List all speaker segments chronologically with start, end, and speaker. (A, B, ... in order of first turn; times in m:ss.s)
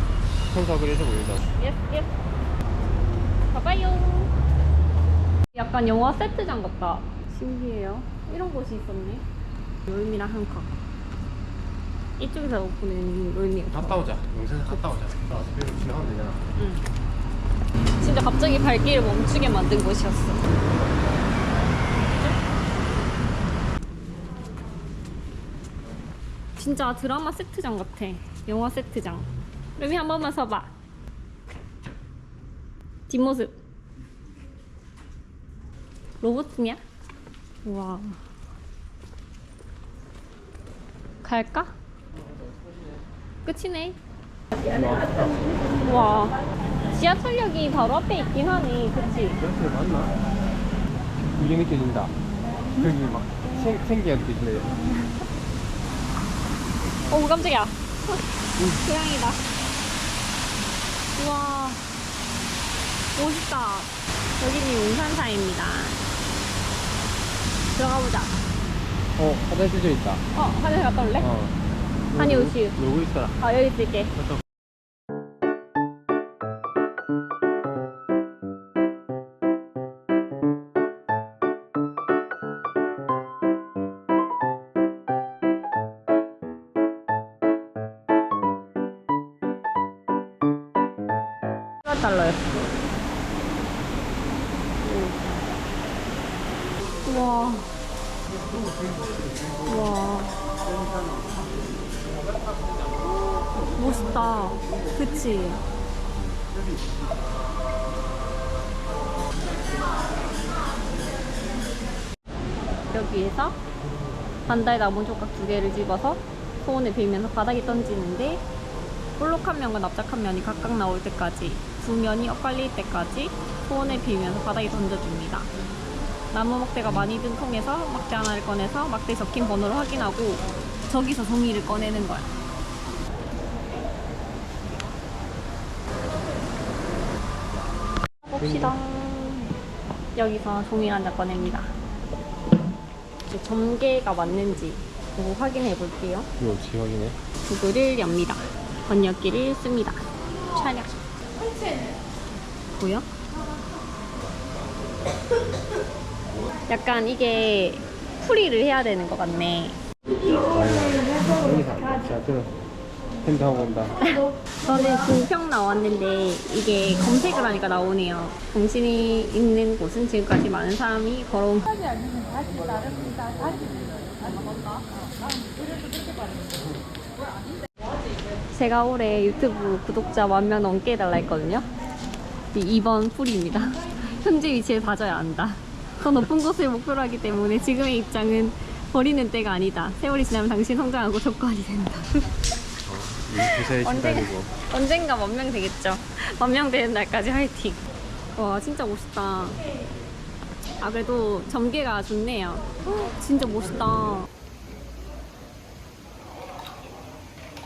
0:00.5-0:01.5 A
0:01.6-0:02.1 B
0:03.5-0:04.3 B
0:05.5-0:09.2 B
0:09.8-0:10.7 B
0:12.2-0:14.0 B
0:13.7-0:16.4 A
0:16.6-0:16.8 B
0:18.0-0:20.4 B
0:26.6-0:30.7 B
0:33.1-0:33.5 B
0:36.2-0:36.8 B
0:37.6-0:38.2 B
0:41.2-0:41.7 B
0:43.4-0:44.0 B
0:44.6-0:45.5 A
0:45.8-0:46.4 B
0:46.9-0:49.4 B
0:49.4-0:50.1 A
0:51.3-0:52.1 A
0:52.8-0:54.7 A
0:57.1-0:59.4 B
1:01.1-1:01.8 B
1:03.1-1:06.0 B
1:07.7-1:08.4 B
1:09.2-1:10.2 A
1:10.3-1:11.3 B
1:11.2-1:11.5 A
1:12.1-1:13.4 A
1:12.2-1:12.8 B
1:13.4-1:14.1 B
1:14.1-1:14.4 A
1:31.8-1:32.7 B
1:34.8-1:35.2 B
1:37.0-1:37.7 B
1:39.6-1:40.4 B
1:43.0-1:45.6 B
1:52.9-1:53.6 B
1:54.4-1:58.4 B
1:59.2-2:05.5 B
2:06.3-2:12.3 B
2:18.2-2:19.5 B
2:18.4-2:18.8 A
2:20.1-2:21.7 B
2:23.3-2:26.3 B
2:26.4-2:27.2 A
2:27.4-2:31.0 B
2:32.8-2:33.1 B
2:36.7-2:39.8 B
2:40.3-2:42.6 A
2:43.2-2:43.9 A
2:44.0-2:51.8 B
2:58.5-3:01.7 B
3:02.5-3:12.3 B
3:12.8-3:14.5 A
3:13.4-3:17.8 B
3:18.3-3:19.6 B
3:20.8-3:24.3 B